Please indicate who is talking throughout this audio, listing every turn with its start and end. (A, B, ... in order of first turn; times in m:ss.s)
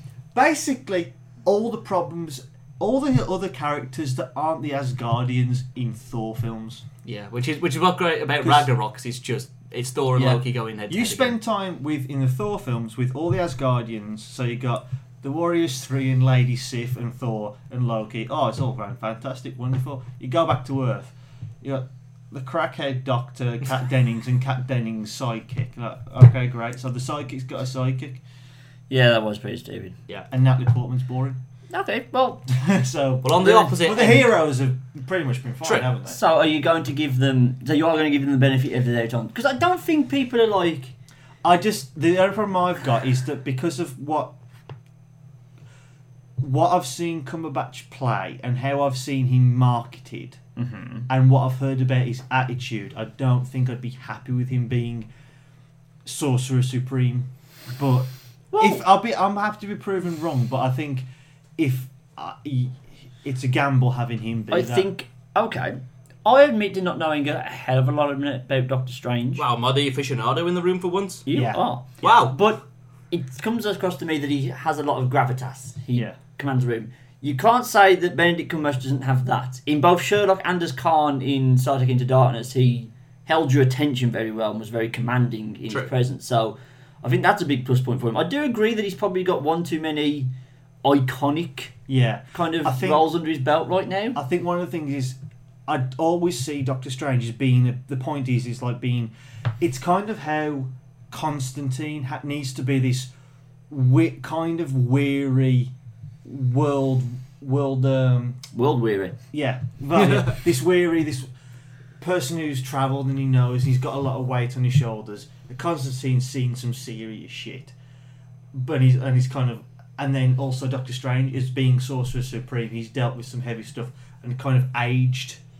0:00.3-0:06.8 A
0:07.0-0:11.4 B
0:08.4-0:08.7 A
0:10.2-0:28.2 A
0:28.9-0:30.0 C
0:30.3-0:31.4 A
0:31.7-0:32.5 C
0:32.5-0:36.2 A
0:33.2-0:34.3 B
0:36.1-0:40.9 C
0:41.4-0:44.3 A
0:46.4-0:50.4 A
0:50.6-0:51.1 C
0:51.1-0:55.1 A
0:56.0-1:04.9 A
0:58.5-0:58.8 C
1:04.5-1:09.4 C
1:09.4-1:11.3 B
1:11.3-1:30.3 C
1:11.3-1:11.6 A
1:12.0-1:12.4 B
1:30.8-1:31.7 C
1:31.9-1:33.0 A
1:32.3-1:34.2 C
1:34.2-1:43.1 A
1:43.7-1:45.7 A
1:46.2-1:48.4 A
1:48.5-1:49.2 C
1:49.3-1:51.3 A
1:52.0-1:57.8 A
1:58.5-2:05.4 A